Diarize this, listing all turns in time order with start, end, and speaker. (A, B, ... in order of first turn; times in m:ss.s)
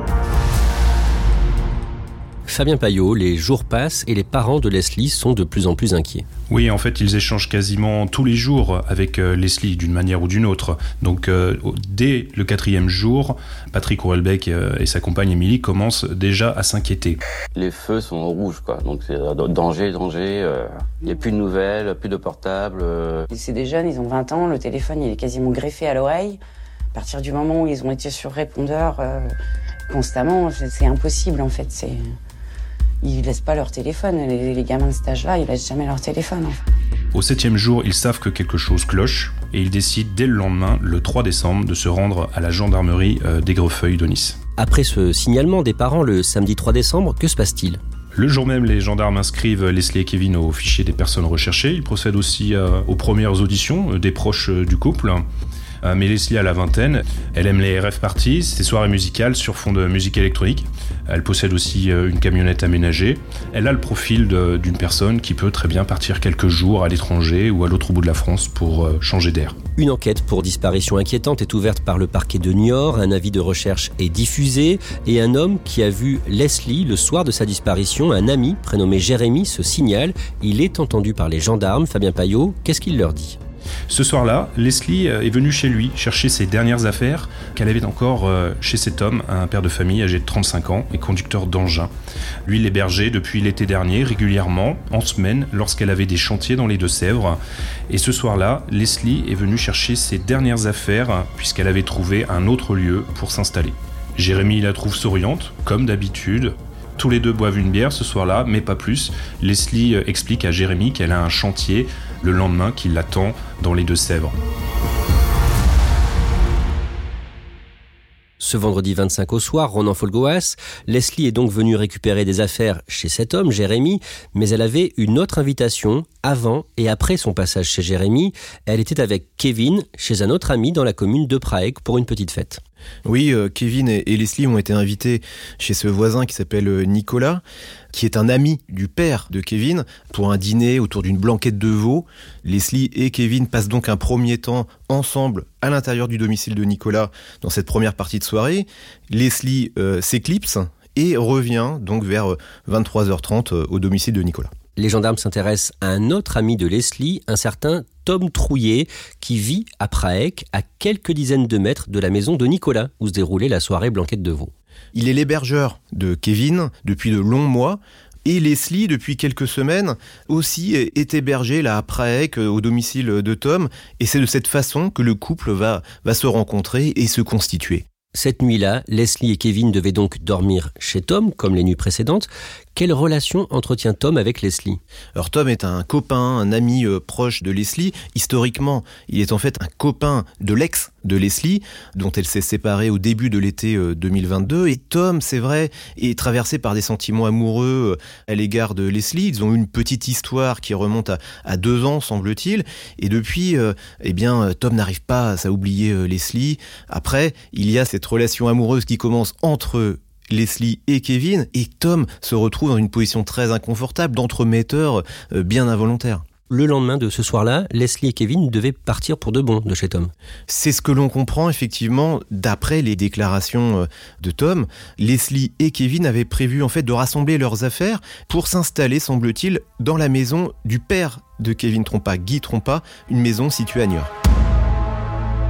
0:02.5-0:06.2 A
0:06.5-0:17.2 B
0:17.5-0:23.2 C
0:23.4-0:26.4 D
0:27.0-0:29.3 D
0:29.9-0:31.9 D
0:33.0-0:36.5 D
0:37.1-0:44.4 B
0:44.6-0:47.8 A
0:48.1-0:55.2 B
0:55.8-1:09.6 B
1:09.8-1:23.4 A
1:23.9-1:31.9 B
1:32.4-1:37.4 B
1:37.9-1:54.3 B
1:58.4-2:12.6 A
2:13.0-2:34.5 E
2:34.8-2:44.5 A
2:44.9-2:57.8 E
2:58.1-3:04.8 A
3:05.2-3:36.2 E
3:36.5-3:40.1 A
3:40.5-3:54.1 E